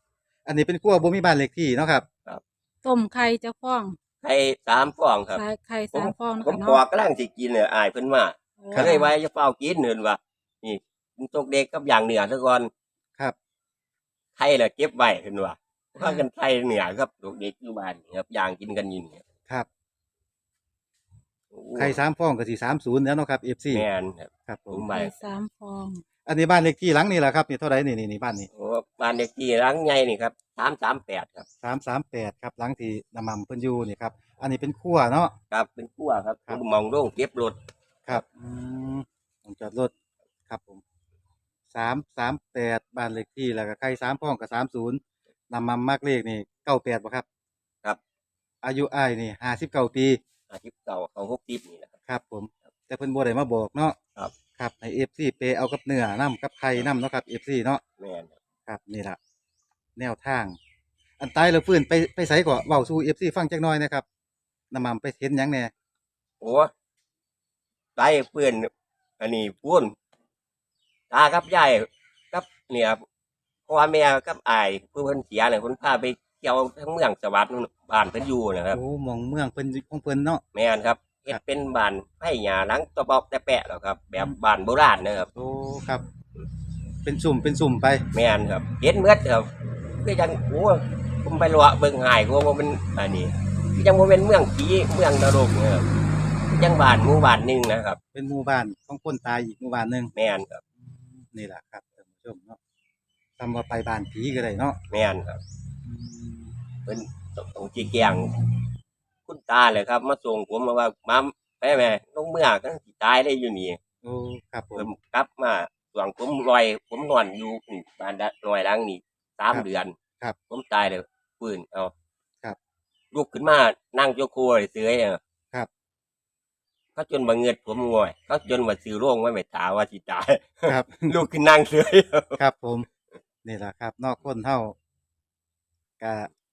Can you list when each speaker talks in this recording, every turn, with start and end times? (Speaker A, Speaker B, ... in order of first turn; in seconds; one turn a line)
Speaker A: 0.4-2.0
Speaker B: 2.8-4.0
Speaker C: 4.2-12.7
Speaker B: 5.3-6.8
Speaker B: 8.6-9.1
Speaker C: 14.3-19.2
Speaker C: 21.5-22.0
Speaker A: 21.8-23.9
Speaker C: 23.7-25.2
Speaker A: 24.5-24.9
Speaker B: 24.9-26.0
Speaker A: 26.2-28.5
Speaker C: 28.5-31.4
Speaker A: 31.6-35.3
Speaker C: 35.5-37.6
Speaker A: 38.1-39.9
Speaker A: 40.5-40.8
Speaker A: 41.7-45.0
Speaker A: 45.5-47.2
Speaker A: 48.6-50.2
Speaker C: 50.5-51.9
Speaker A: 52.1-54.0
Speaker A: 54.6-57.8
Speaker C: 58.0-58.3
Speaker A: 58.7-59.2
Speaker A: 60.0-60.6
Speaker A: 61.2-64.0
Speaker A: 64.7-65.7
Speaker C: 66.4-66.7
Speaker C: 68.0-69.9
Speaker C: 71.1-73.0
Speaker C: 73.7-78.8
Speaker A: 78.7-80.4
Speaker C: 80.5-85.3
Speaker A: 85.3-86.0
Speaker A: 87.0-88.0
Speaker C: 88.1-89.5
Speaker C: 90.0-95.9
Speaker C: 96.5-98.0
Speaker A: 98.1-100.1
Speaker C: 100.1-100.6
Speaker A: 100.8-102.6
Speaker A: 103.4-104.8
Speaker C: 104.9-105.4
Speaker A: 105.8-106.5
Speaker C: 106.8-108.3
Speaker C: 109.3-113.8
Speaker A: 114.0-114.9
Speaker C: 114.8-119.9
Speaker C: 120.5-121.9
Speaker C: 123.1-125.2
Speaker C: 126.9-132.4
Speaker A: 130.7-131.2
Speaker A: 132.4-132.9
Speaker A: 133.4-134.7
Speaker A: 136.0-136.3